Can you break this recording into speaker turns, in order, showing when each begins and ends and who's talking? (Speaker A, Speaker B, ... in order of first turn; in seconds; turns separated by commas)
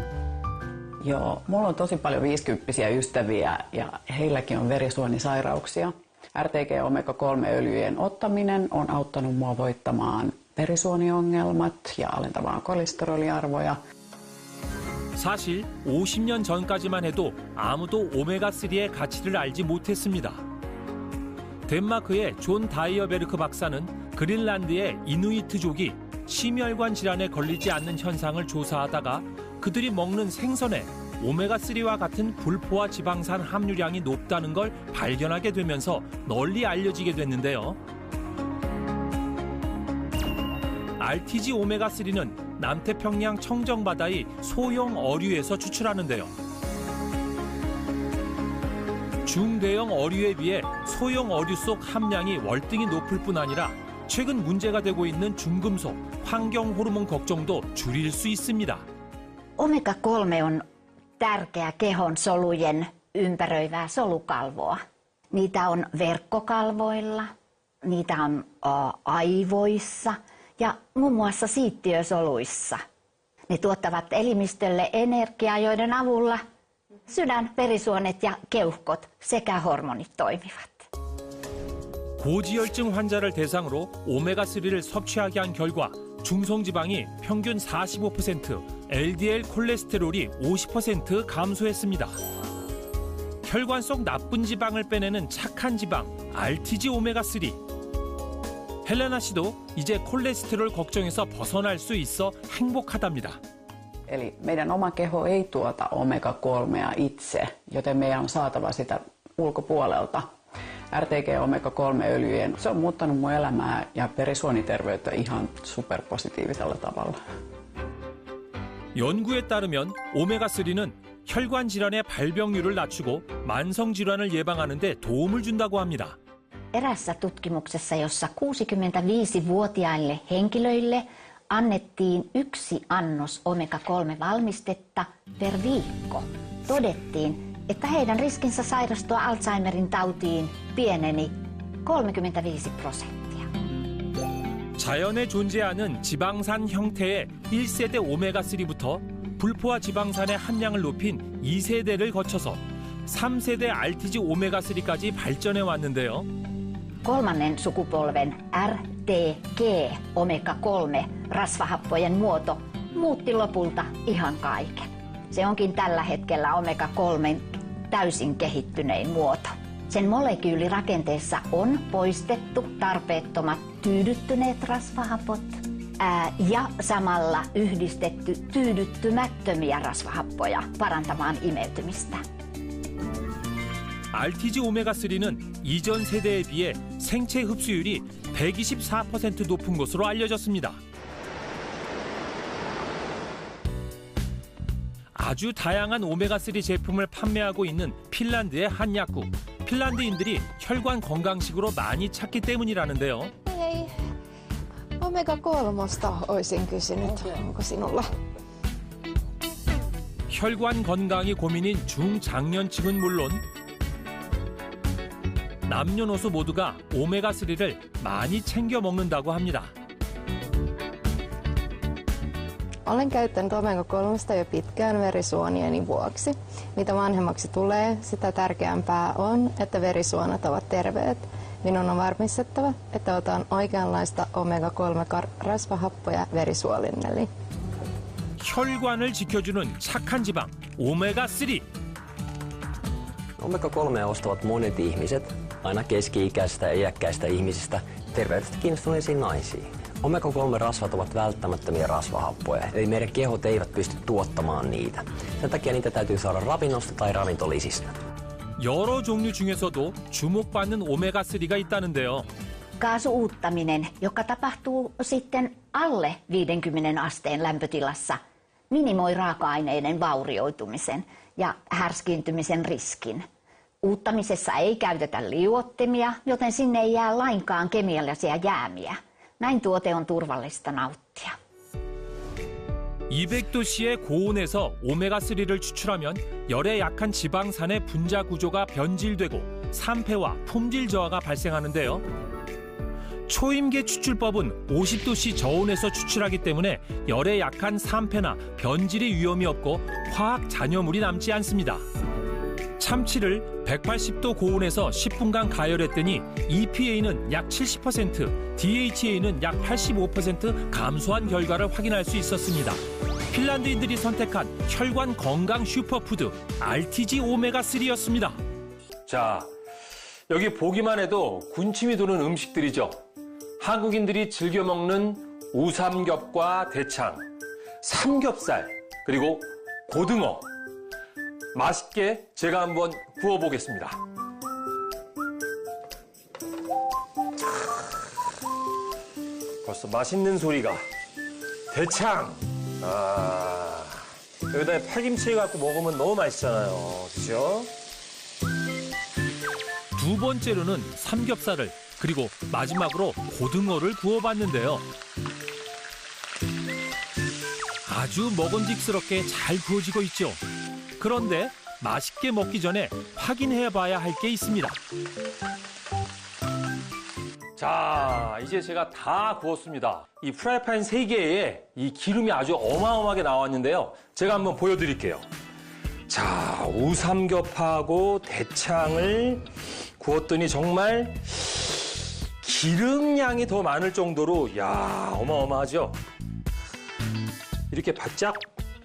Speaker A: 1.0-13.8, Speaker B: 15.2-20.4, Speaker B: 21.7-37.8, Speaker B: 41.0-46.3, Speaker B: 49.2-58.9, Speaker C: 59.6-60.6, Speaker C: 61.2-64.8, Speaker C: 65.3-67.3, Speaker C: 67.8-72.8, Speaker C: 73.5-76.4, Speaker C: 77.1-80.9, Speaker B: 82.2-92.2, Speaker B: 93.4-97.6, Speaker B: 98.8-103.4, Speaker A: 104.1-110.3, Speaker A: 110.9-117.2, Speaker B: 119.0-126.2, Speaker C: 126.7-143.5, Speaker B: 144.8-156.3, Speaker C: 157.1-182.2, Speaker B: 184.1-190.8, Speaker B: 195.2-203.3, Speaker D: 207.0-207.6, Speaker B: 210.3-213.4, Speaker B: 215.7-219.7, Speaker D: 222.9-226.3, Speaker D: 226.8-231.2, Speaker D: 231.8-237.3, Speaker B: 238.4-241.7, Speaker E: 243.4-258.0, Speaker B: 258.6-262.3, Speaker C: 262.8-268.2, Speaker C: 268.7-273.2, Speaker C: 273.8-281.4, Speaker B: 283.1-292.1, Speaker B: 293.3-301.9, Speaker B: 302.8-318.4, Speaker B: 319.1-319.5, Speaker B: 320.3-323.0, Speaker B: 323.6-327.3, Speaker B: 327.8-330.5, Speaker B: 331.5-334.0, Speaker B: 339.6-340.8, Speaker B: 341.7-347.7, Speaker B: 350.0-354.9, Speaker B: 357.9-360.4, Speaker B: 361.0-364.8, Speaker B: 367.6-375.3, Speaker B: 376.1-379.4, Speaker B: 380.0-386.0, Speaker B: 387.7-388.5